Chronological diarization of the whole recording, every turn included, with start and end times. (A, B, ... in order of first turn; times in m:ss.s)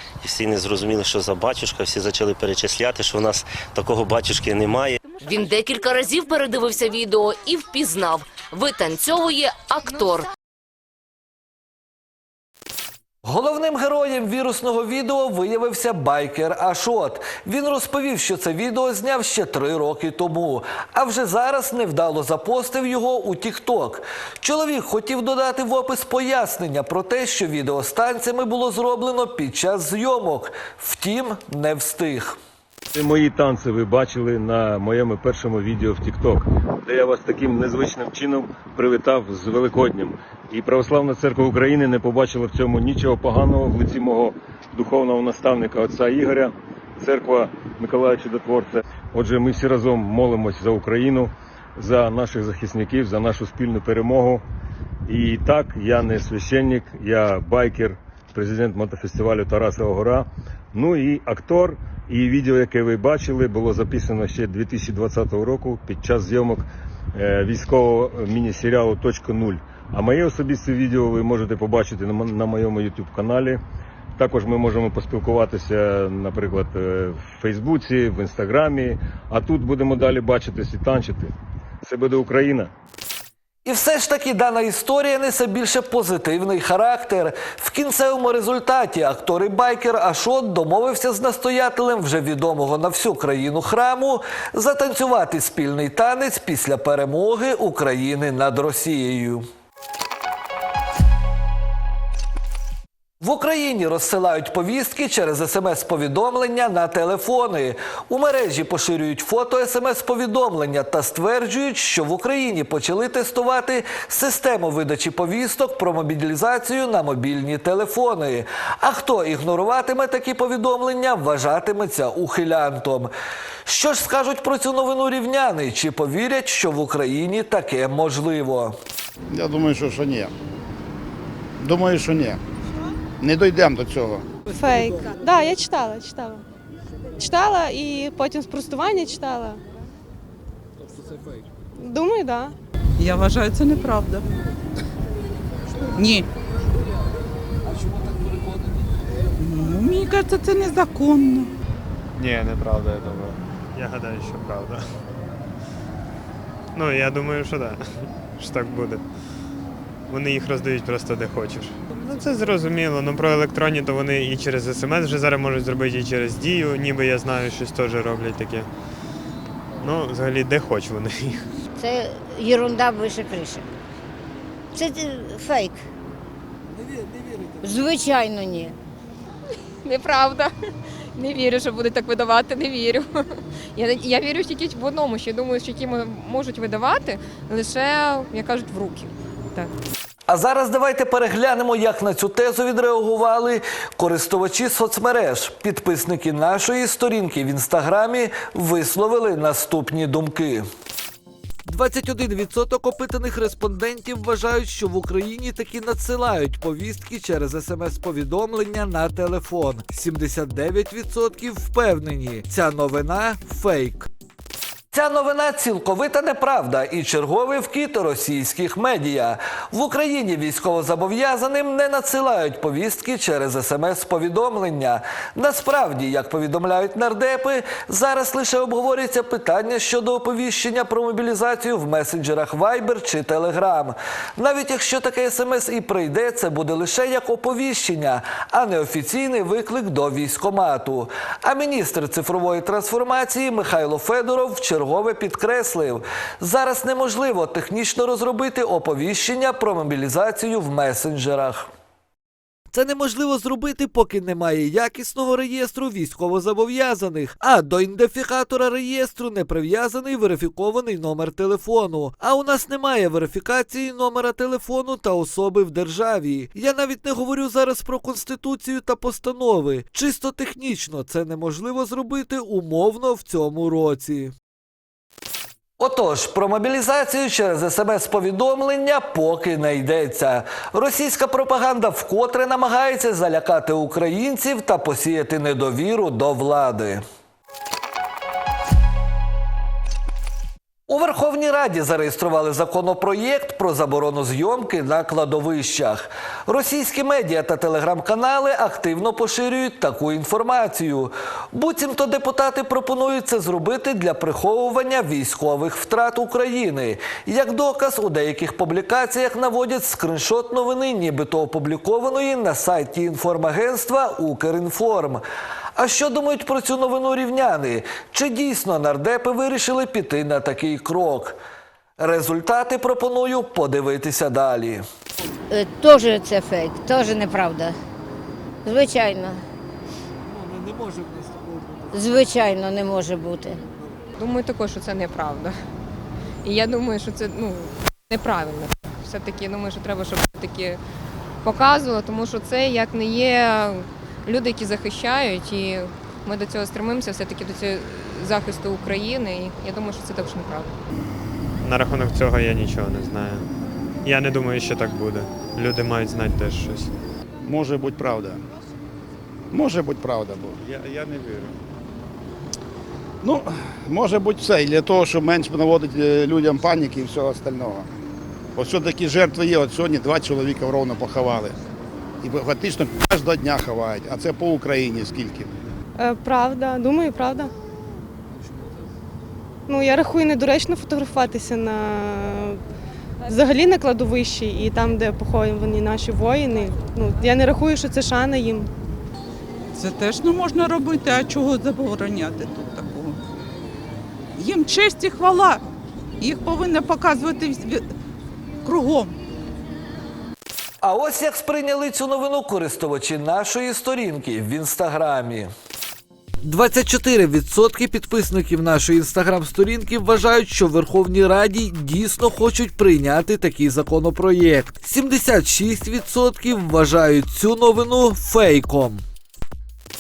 0:00.2-0:05.0 A
0:05.2-0:10.3 B
0:13.2-0:32.4 C
0:33.0-0:54.4 D
0:55.1-1:13.6 D
1:14.2-1:22.7 D
1:23.6-1:39.5 C
1:43.2-2:03.1 C
2:03.7-2:08.8 C
2:09.3-2:10.3 E
2:11.6-2:12.4 E
2:13.2-2:14.3 E
2:14.5-2:16.4 F
2:14.6-2:15.1 G
2:17.2-2:19.6 F
2:20.8-2:21.4 G
2:21.8-2:22.6 F
2:23.0-2:24.2 H
2:26.0-2:26.3 H
2:27.6-2:29.3 G
2:29.4-2:31.5 H
2:32.2-2:34.9 I
2:36.7-2:39.0 I
2:40.1-2:48.7 I
2:49.8-2:51.5 I
2:51.8-2:53.6 J
2:54.7-2:55.9 J
2:56.7-2:57.7 G
2:57.6-2:58.8 J
2:59.8-3:00.5 K
3:01.2-3:09.7 K
3:10.3-3:20.7 C
3:21.6-3:34.1 C
3:34.9-4:11.7 C
4:12.7-4:34.3 C
4:35.8-4:47.0 C
4:50.9-5:15.2 C
5:15.8-5:21.4 C
5:22.0-5:24.8 C
5:25.5-5:27.8 J
5:28.6-5:29.4 J
5:30.2-5:32.1 G
5:31.9-5:33.6 J
5:34.2-5:35.6 K
5:36.4-5:40.8 K
5:41.4-5:50.7 K
5:51.6-5:53.5 I
5:54.0-5:57.0 I
5:57.4-5:58.4 E
5:59.5-6:00.6 E
6:03.2-6:07.9 E
6:08.6-6:11.6 E
6:12.2-6:15.5 E
6:16.0-6:17.5 F
6:18.4-6:18.8 G
6:19.7-6:22.6 F
6:23.3-6:28.7 F
6:29.7-6:33.2 H
6:34.4-6:35.6 H
6:36.2-6:37.9 H
6:38.6-6:39.2 H
6:40.8-6:45.5 C
6:46.4-6:59.0 C